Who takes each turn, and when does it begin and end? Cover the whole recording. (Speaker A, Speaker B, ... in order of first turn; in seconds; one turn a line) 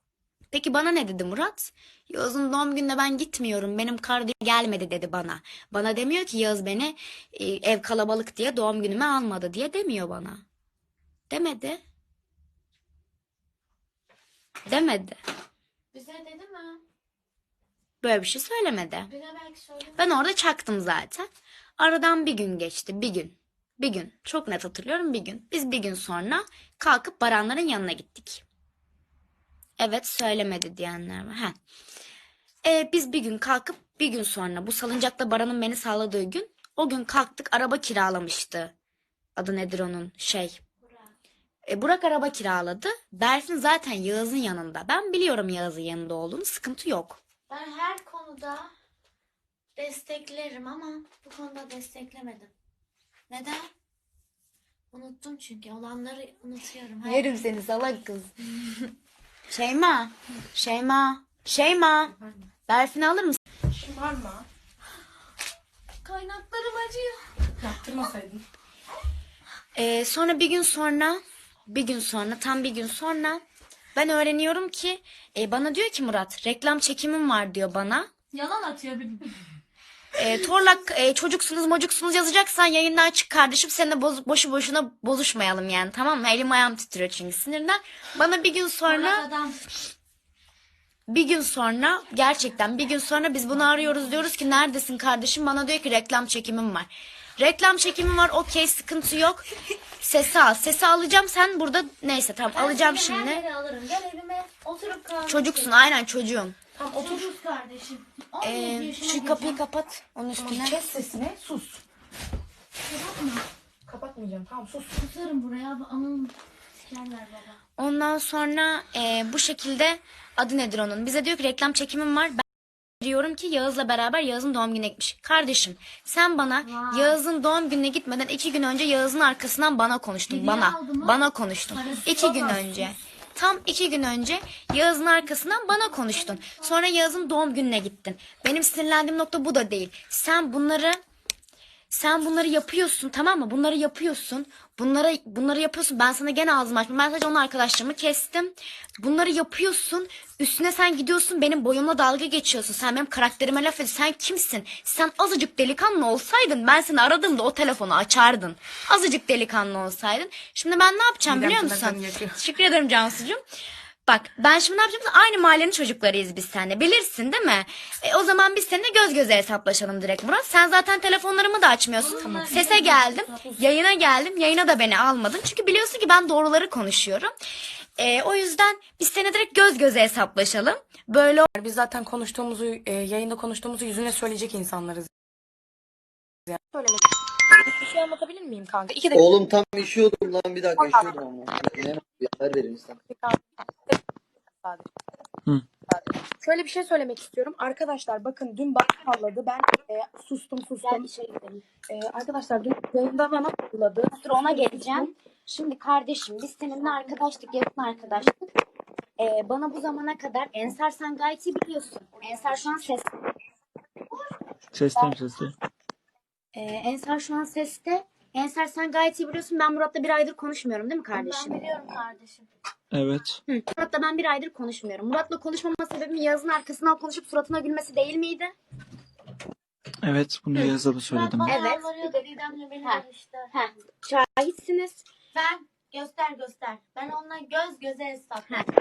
Speaker A: 0.5-10.4
Speaker A: 11.3-11.8
Speaker A: 14.7-15.2
Speaker B: 15.9-16.8
Speaker A: 18.0-19.1
Speaker B: 19.1-20.0
Speaker A: 19.9-28.4
Speaker A: 29.8-31.5
Speaker A: 32.6-38.7
Speaker A: 39.4-40.6
Speaker A: 41.7-47.2
Speaker B: 47.5-48.7
Speaker B: 49.8-52.5
Speaker B: 53.3-53.7
Speaker B: 54.9-57.5
Speaker A: 57.0-58.3
Speaker A: 59.5-62.1
Speaker A: 62.7-63.4
Speaker C: 63.7-64.5
Speaker B: 66.0-67.2
Speaker C: 67.6-68.4
Speaker A: 69.8-73.4
Speaker A: 73.9-78.1
Speaker B: 78.3-79.3
Speaker A: 80.1-89.2
Speaker B: 88.8-89.7
Speaker A: 91.1-99.4
Speaker B: 93.6-94.2
Speaker A: 100.0-103.4
Speaker B: 102.5-105.8
Speaker A: 105.3-106.5
Speaker C: 106.8-107.3
Speaker B: 106.9-109.6
Speaker A: 108.4-110.8
Speaker C: 110.3-111.8
Speaker B: 112.8-113.4
Speaker C: 113.8-114.9
Speaker B: 114.8-117.6
Speaker A: 117.8-122.4
Speaker A: 123.0-141.0
Speaker B: 126.6-127.2
Speaker B: 130.3-133.0
Speaker B: 135.7-136.7
Speaker A: 141.9-163.4
Speaker C: 161.3-162.4
Speaker A: 164.1-177.3
Speaker B: 172.0-173.2
Speaker C: 172.1-172.9
Speaker A: 178.0-181.5
Speaker C: 181.5-185.1
Speaker C: 186.5-189.3
Speaker D: 189.1-193.0
Speaker C: 190.8-191.2
Speaker C: 193.1-193.9
Speaker C: 195.9-201.1
Speaker A: 200.8-201.6
Speaker C: 201.9-205.1
Speaker A: 204.1-208.4
Speaker A: 209.2-213.1
Speaker E: 214.7-215.5
Speaker A: 216.5-221.6
Speaker B: 221.1-222.5
Speaker E: 222.9-223.4
Speaker A: 223.5-228.5
Speaker E: 230.0-231.6
Speaker B: 231.1-233.5
Speaker A: 231.4-231.8
Speaker A: 232.8-235.0
Speaker B: 235.3-238.7